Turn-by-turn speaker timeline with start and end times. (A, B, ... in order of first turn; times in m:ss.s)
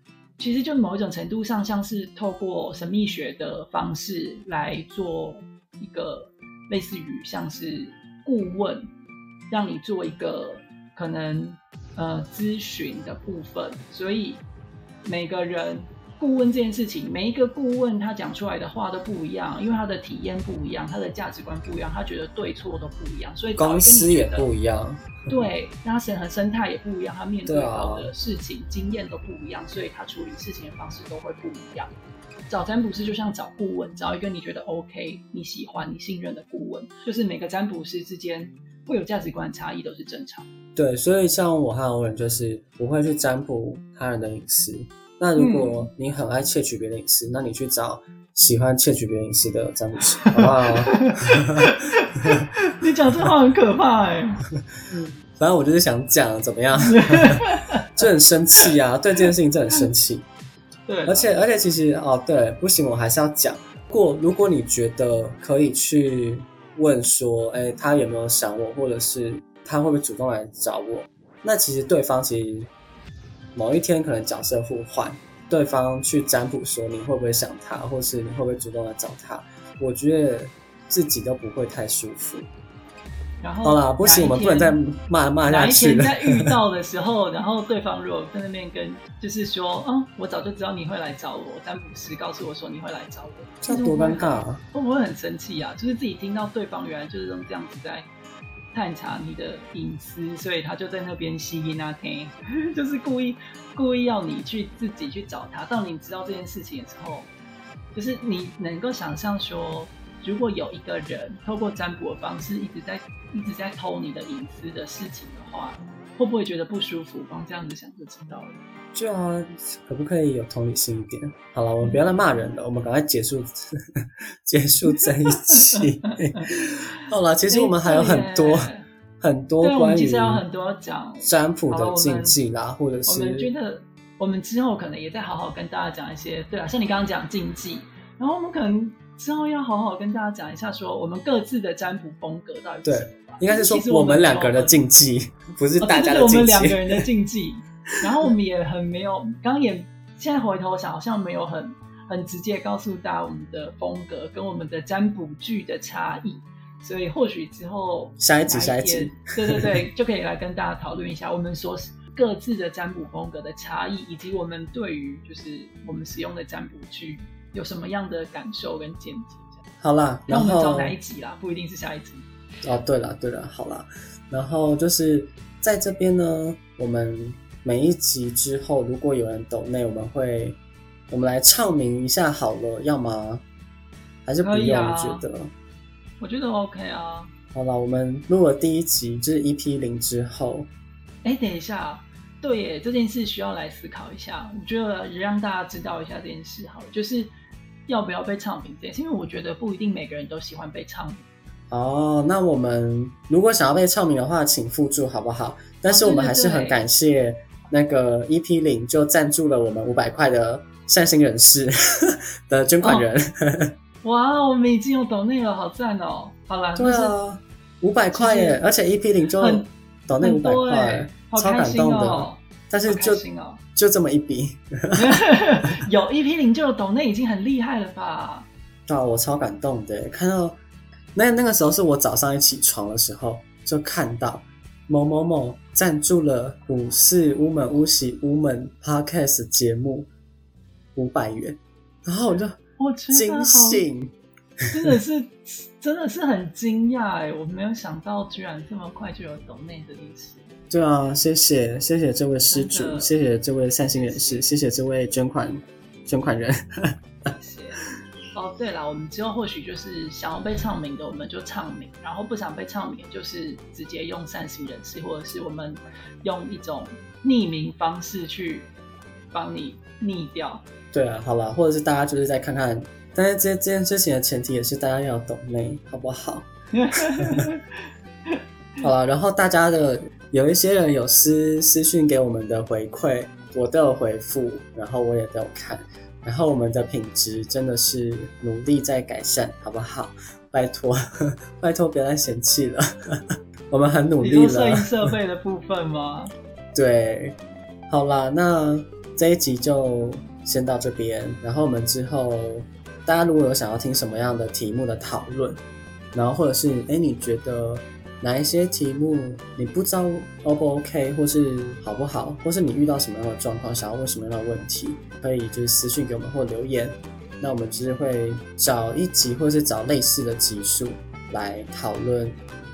0:00.4-0:08.9 A
0:09.5-0:14.4 A
0:15.0-0:24.5 A
0:23.6-0:25.5 B
0:25.3-0:31.9 A
0:27.4-0:28.1 B
0:32.5-0:40.4 A
0:40.8-0:51.6 B
0:45.4-0:45.9 A
0:50.2-0:54.4 A
0:54.9-0:57.4 B
0:56.8-0:58.0 A
0:58.0-1:00.3 B
1:00.9-1:01.3 A
1:01.0-1:12.7 B
1:13.5-1:22.5 B
1:23.4-1:24.8 A
1:23.6-1:26.5 B
1:25.4-1:38.1 A
1:33.6-1:34.6 B
1:38.7-1:47.3 A
1:47.9-1:58.6 A
1:58.9-2:10.4 B
2:04.9-2:08.8 A
2:09.6-2:12.4 A
2:11.2-2:13.5 B
2:13.0-2:24.8 A
2:22.8-2:27.0 B
2:25.8-2:49.6 A
2:38.2-2:39.8 B
2:49.8-2:51.0 B
2:50.3-2:52.2 A
2:52.6-3:00.6 B
3:01.1-3:03.4 B
3:04.2-3:05.5 B
3:04.4-3:05.2 A
3:06.2-3:07.3 A
3:07.5-3:10.7 B
3:11.2-3:17.3 A
3:17.9-3:21.2 A
3:21.7-3:33.7 B
3:25.9-3:26.8 A
3:32.8-3:33.1 A
3:34.0-3:37.1 A
3:36.8-3:43.2 B
3:38.1-3:38.6 A
3:39.4-3:43.6 A
3:43.8-3:45.2 B
3:45.0-3:48.5 A
3:48.9-3:50.6 B
3:51.1-4:00.1 B
4:00.9-4:02.6 B
4:02.8-4:03.8 A
4:03.1-4:04.1 B
4:04.7-4:10.5 A
4:10.7-4:16.9 B
4:12.5-4:13.1 A
4:13.9-4:14.5 A
4:17.3-4:17.8 A
4:18.3-4:28.7 A
4:29.3-4:30.6 A
4:30.9-4:36.5 B
4:36.7-4:37.6 A
4:37.2-4:37.4 B
4:38.8-4:53.2 B
4:53.7-4:55.1 B
4:54.2-4:56.3 A
4:56.7-4:57.4 B
4:57.9-5:05.6 B
5:06.1-5:22.4 B